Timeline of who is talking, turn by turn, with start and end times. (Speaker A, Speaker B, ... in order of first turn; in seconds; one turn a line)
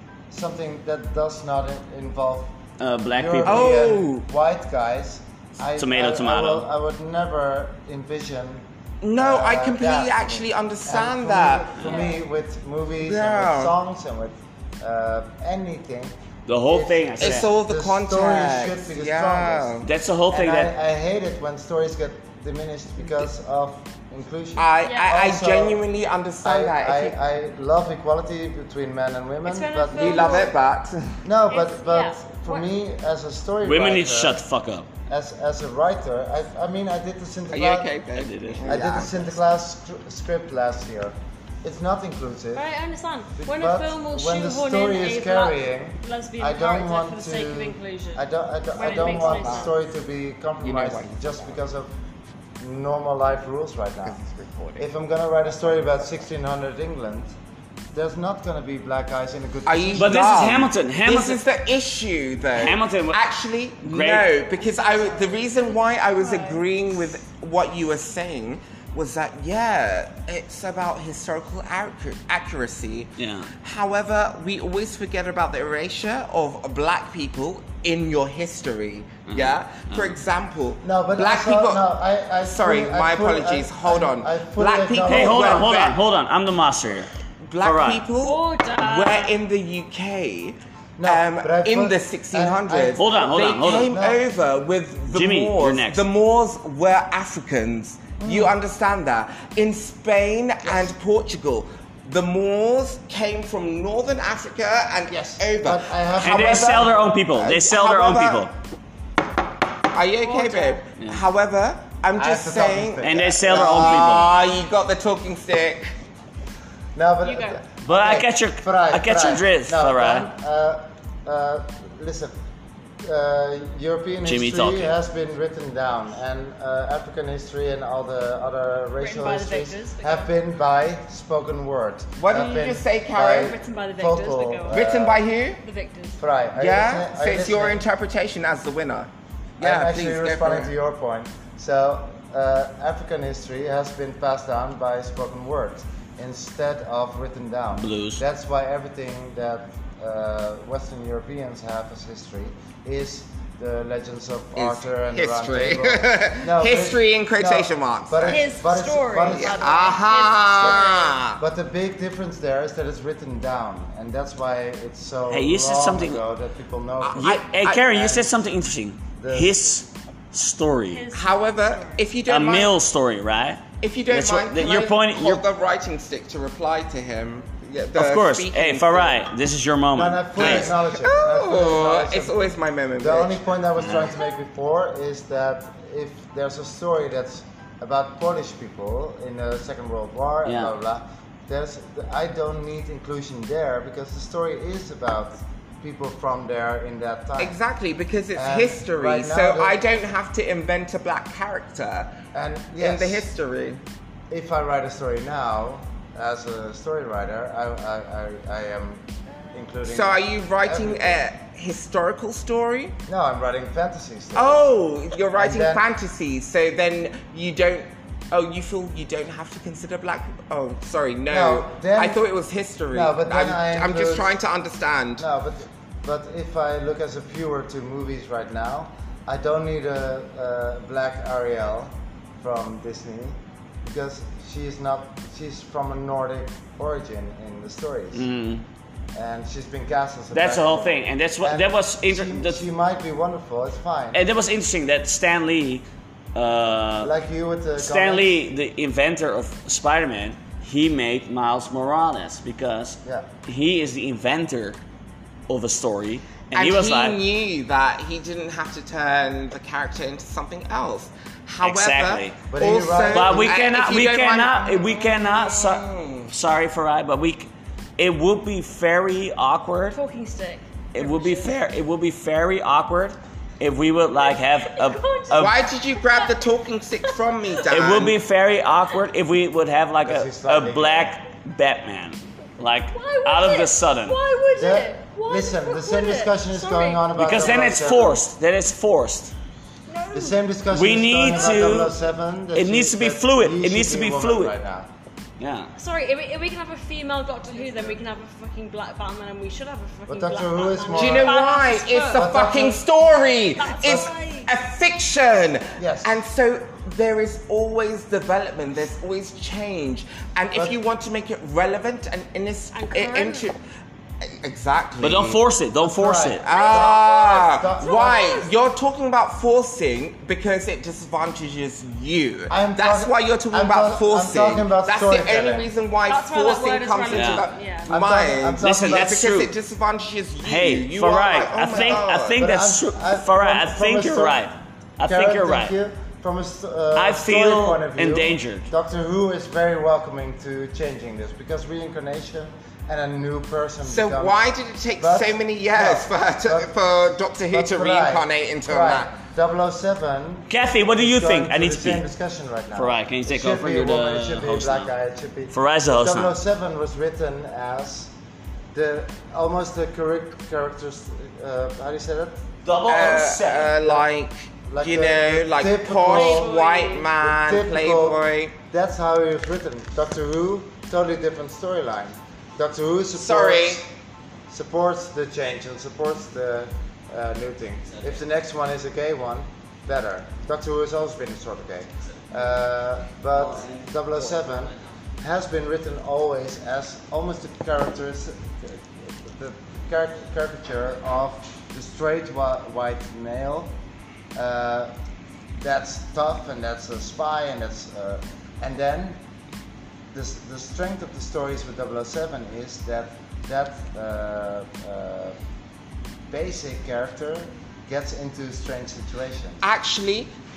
Speaker A: 0.3-2.6
Speaker B: 2.8-3.9
Speaker A: 3.1-8.6
Speaker C: 3.4-4.2
Speaker B: 5.8-6.7
Speaker C: 9.0-11.8
Speaker A: 9.2-16.1
Speaker D: 11.8-12.2
Speaker C: 13.0-13.7
Speaker B: 16.5-17.5
Speaker A: 16.6-25.8
Speaker C: 17.2-19.9
Speaker B: 19.8-20.7
Speaker C: 24.6-27.1
Speaker D: 24.8-25.1
Speaker A: 26.4-30.5
Speaker D: 29.4-30.5
Speaker C: 29.9-31.2
Speaker A: 31.2-34.4
Speaker D: 31.5-32.7
Speaker B: 33.6-34.9
Speaker A: 35.1-37.9
Speaker C: 37.5-39.1
Speaker B: 38.1-39.2
Speaker A: 38.7-42.6
Speaker D: 42.5-49.7
Speaker A: 43.4-51.9
Speaker C: 48.8-49.7
Speaker C: 50.6-51.6
Speaker A: 52.6-54.2
Speaker C: 54.0-54.9
Speaker A: 54.8-57.3
Speaker C: 55.5-56.1
Speaker A: 57.9-60.3
Speaker C: 59.6-81.8
Speaker B: 60.0-61.4
Speaker B: 62.5-63.2
Speaker B: 63.8-64.3
Speaker D: 64.8-65.4
Speaker D: 66.2-66.6
Speaker B: 73.2-73.5
Speaker B: 79.3-80.2
Speaker A: 80.8-85.8
Speaker C: 82.4-86.0
Speaker B: 85.0-87.1
Speaker C: 87.5-108.5
Speaker B: 87.6-88.0
Speaker D: 88.2-89.3
Speaker A: 91.0-94.2
Speaker B: 93.0-93.9
Speaker B: 95.1-96.0
Speaker A: 98.2-98.5
Speaker A: 100.6-100.9
Speaker A: 105.1-107.2
Speaker B: 106.2-108.5
Speaker C: 109.9-115.9
Speaker D: 110.2-110.8
Speaker A: 112.2-114.3
Speaker B: 113.0-114.3
Speaker A: 116.9-122.3
Speaker D: 117.2-117.6
Speaker B: 117.8-120.3
Speaker A: 123.0-135.2
Speaker B: 124.2-124.9
Speaker D: 129.0-130.3
Speaker C: 132.2-133.6
Speaker D: 133.3-134.8
Speaker C: 134.7-135.6
Speaker D: 135.6-136.2
Speaker A: 136.2-137.8
Speaker C: 136.6-140.7
Speaker A: 139.6-159.9
Speaker B: 147.7-148.2
Speaker C: 154.6-158.4
Speaker D: 158.2-161.2
Speaker C: 159.3-161.4
Speaker A: 160.5-168.3
Speaker B: 165.3-166.2
Speaker C: 167.0-168.1
Speaker B: 167.2-171.0
Speaker A: 169.2-169.6
Speaker D: 170.9-172.0
Speaker C: 171.1-172.8
Speaker B: 172.3-175.4
Speaker C: 173.8-179.2
Speaker B: 177.9-180.7
Speaker A: 179.9-197.6
Speaker C: 180.3-183.4
Speaker B: 183.8-184.1
Speaker B: 190.4-190.7
Speaker C: 197.4-202.1
Speaker A: 198.3-199.8
Speaker A: 202.3-203.3
Speaker C: 202.8-203.8
Speaker A: 204.3-211.2
Speaker C: 209.8-212.9
Speaker A: 213.1-214.7
Speaker C: 214.3-225.2
Speaker A: 215.3-215.8
Speaker A: 221.3-222.2
Speaker A: 222.9-224.3
Speaker A: 225.2-238.3
Speaker B: 238.1-238.6
Speaker A: 239.1-244.2
Speaker B: 240.3-242.6
Speaker B: 244.1-247.1
Speaker A: 247.0-248.4
Speaker B: 247.8-254.8
Speaker B: 255.5-257.2
Speaker C: 256.5-266.3
Speaker B: 261.6-262.4
Speaker A: 262.5-263.6
Speaker B: 263.1-270.0
Speaker D: 269.9-271.5
Speaker B: 270.9-275.6
Speaker D: 274.1-276.3
Speaker C: 275.3-278.2
Speaker B: 277.7-284.2
Speaker A: 280.0-281.1
Speaker D: 282.9-287.1
Speaker A: 284.5-288.2
Speaker B: 287.1-289.3
Speaker D: 289.9-290.4
Speaker A: 290.1-294.9
Speaker B: 290.7-291.9
Speaker D: 291.3-291.8
Speaker B: 292.5-294.5
Speaker B: 295.4-295.7
Speaker D: 295.7-302.3
Speaker A: 300.1-301.4
Speaker C: 300.9-313.6
Speaker A: 302.1-302.8
Speaker D: 303.6-304.5
Speaker A: 305.8-306.2
Speaker D: 312.7-313.5
Speaker C: 314.2-315.4
Speaker B: 315.0-316.4
Speaker A: 315.8-318.4
Speaker C: 316.4-332.4
Speaker D: 316.4-318.5
Speaker A: 322.5-325.7
Speaker D: 326.1-327.9
Speaker B: 327.1-327.4
Speaker A: 327.9-329.2
Speaker B: 328.6-329.5
Speaker B: 330.4-335.7
Speaker A: 331.5-334.4
Speaker A: 335.0-344.4
Speaker B: 336.9-338.7
Speaker C: 343.8-349.1
Speaker A: 345.0-346.7
Speaker A: 347.5-358.1
Speaker B: 350.5-352.0
Speaker B: 352.7-354.9
Speaker B: 355.5-356.3
Speaker A: 358.7-362.4
Speaker B: 362.6-363.8
Speaker C: 362.9-368.6
Speaker A: 364.7-366.5
Speaker D: 366.1-367.1
Speaker A: 367.2-373.9
Speaker C: 373.1-373.8
Speaker A: 374.5-393.7
Speaker B: 383.4-384.8
Speaker A: 394.3-394.9
Speaker A: 395.5-399.2
Speaker A: 400.1-405.4
Speaker A: 406.3-409.6
Speaker C: 409.6-410.3